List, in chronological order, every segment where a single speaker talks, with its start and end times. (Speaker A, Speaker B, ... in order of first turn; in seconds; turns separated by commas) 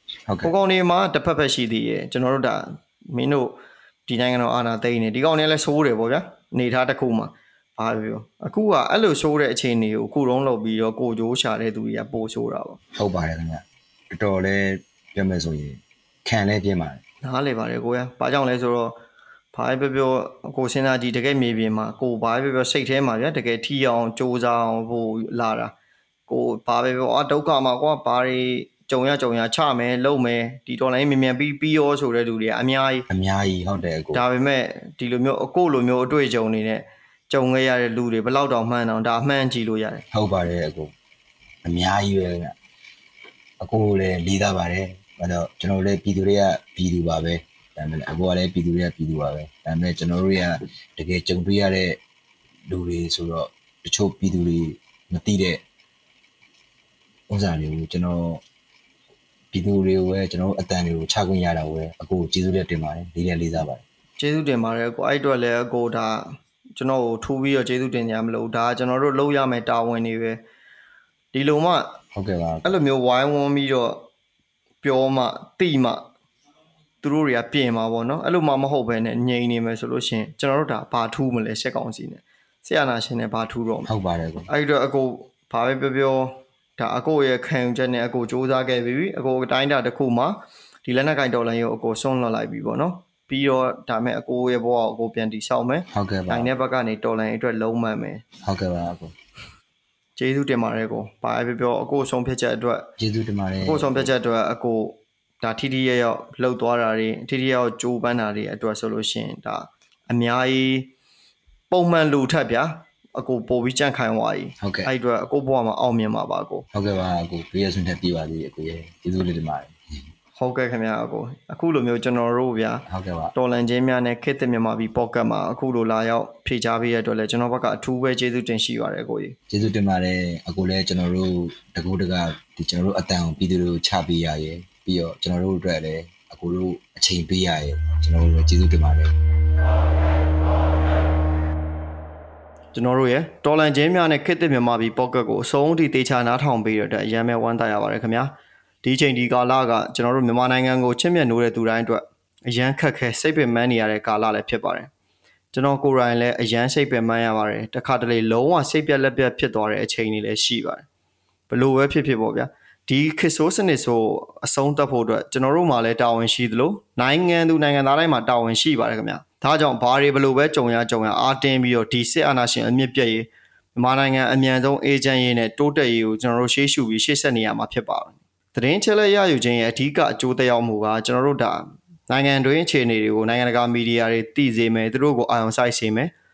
Speaker A: 0.4-12.8, Speaker B: 12.9-17.0, Speaker A: 17.2-19.0, Speaker A: 19.5-25.7, Speaker A: 26.3-33.1, Speaker B: 33.1-34.2, Speaker A: 34.1-40.0, Speaker B: 40.1-40.9, Speaker B: 41.6-42.5, Speaker B: 43.6-52.0, Speaker B: 52.7-55.6, Speaker B: 57.3-58.4, Speaker B: 59.5-63.8, Speaker A: 64.2-70.4, Speaker A: 71.3-72.0, Speaker B: 72.1-72.7, Speaker A: 72.6-74.0, Speaker A: 74.8-76.0, Speaker A: 77.0-83.9, Speaker B: 83.9-84.5, Speaker A: 84.5-98.2, Speaker B: 95.9-96.5, Speaker B: 98.4-99.1, Speaker A: 100.2-102.9, Speaker B: 103.0-104.1, Speaker A: 103.6-110.9, Speaker A: 111.7-116.7, Speaker B: 114.6-114.9, Speaker B: 116.7-119.8, Speaker A: 120.4-129.4, Speaker B: 122.9-123.3, Speaker B: 129.5-139.1, Speaker A: 142.7-148.3, Speaker A: 148.8-154.9, Speaker A: 155.5-160.9, Speaker A: 161.5-186.1